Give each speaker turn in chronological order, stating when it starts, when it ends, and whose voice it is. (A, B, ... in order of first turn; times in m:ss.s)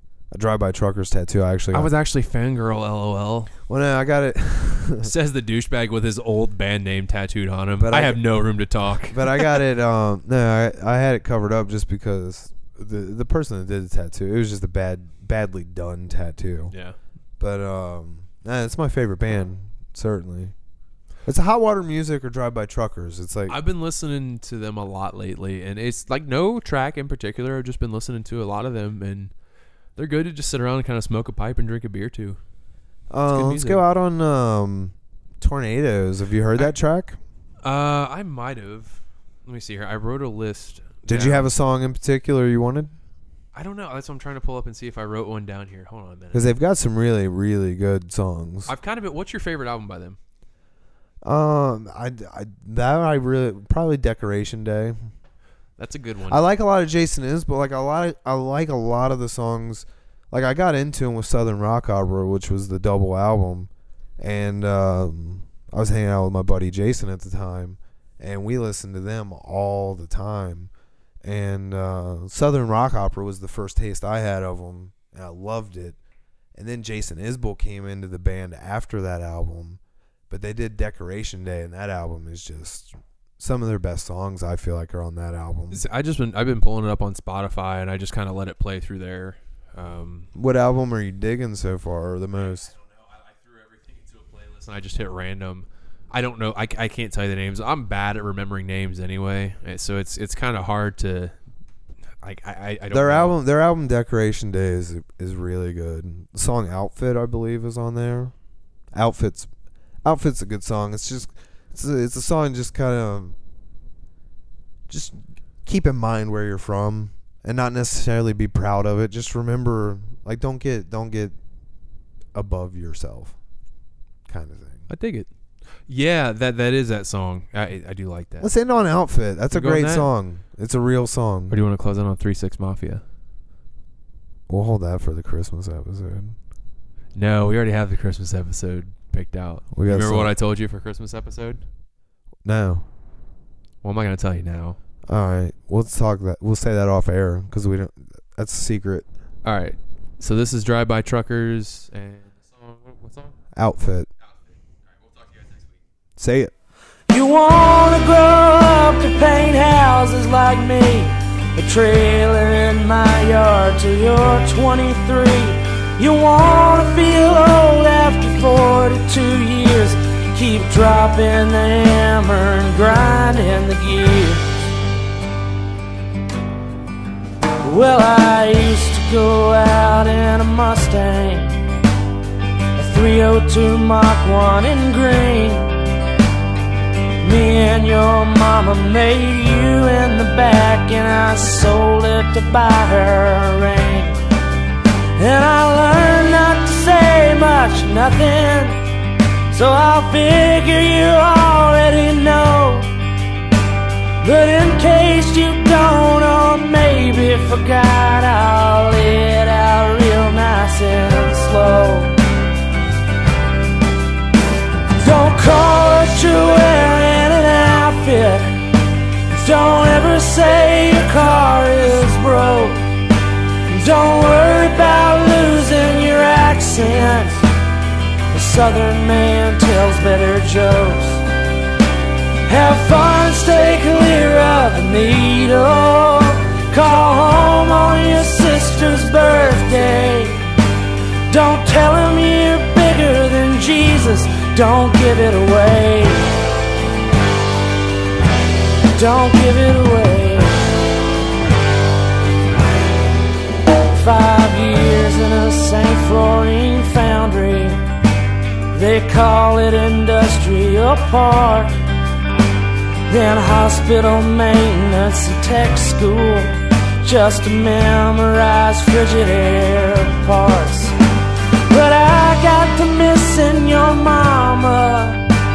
0:00.3-0:01.9 A
0:01.7-0:03.5 B
0:03.7-0:05.1 A
0:05.0-0:09.6 B
0:07.8-0:08.2 A
0:09.1-0:16.7 A
0:16.7-0:17.0 B
0:17.4-0:20.5 A
0:21.2-0:23.6 A
0:23.5-0:29.3 B
0:30.0-0:32.4 B
0:33.1-0:37.2 A
0:33.3-0:33.8 B
0:37.6-0:41.5 B
0:41.0-0:42.9 A
0:43.5-0:46.5 B
0:46.3-0:48.7 A
0:48.7-0:50.2 B
0:51.2-0:55.1 A
0:55.8-0:56.4 B
0:56.3-1:10.7 A
1:11.2-1:16.0 A
1:16.6-1:25.8 A
1:25.7-1:30.3 B
1:30.4-1:32.7 A
1:32.7-1:41.4 B
1:42.2-1:43.4 B
1:42.9-1:48.3 A
1:48.9-1:49.5 A
1:50.0-1:53.4 A
1:54.9-2:01.4 A
2:02.3-2:03.4 A
2:04.3-2:04.9 A
2:04.9-2:05.3 B
2:05.9-2:08.5 B
2:08.4-2:11.6 A
2:09.5-2:10.1 B
2:11.5-2:13.0 B
2:14.5-2:16.4 A
2:17.1-2:21.6 B
2:19.7-2:20.3 A
2:22.4-2:22.9 A
2:23.8-2:24.8 B
2:25.1-2:29.1 A
2:29.4-2:33.4 B
2:33.6-2:34.1 A
2:34.2-2:35.8 B
2:36.2-2:36.5 A
2:37.1-2:54.4 C
2:57.6-3:01.6 C
3:02.8-3:05.8 C
3:07.2-3:14.2 C
3:15.2-3:18.8 C
3:19.5-3:22.9 C
3:24.2-3:32.1 C
3:35.0-3:38.6 C
3:39.3-3:42.8 C
3:43.7-3:47.4 C
3:48.3-3:51.2 C
3:52.5-4:00.4 C
4:01.3-4:06.3 C
4:09.0-4:10.7 C
4:13.9-4:17.8 C
4:18.7-4:21.8 C
4:23.1-4:30.9 C
4:31.7-4:35.2 C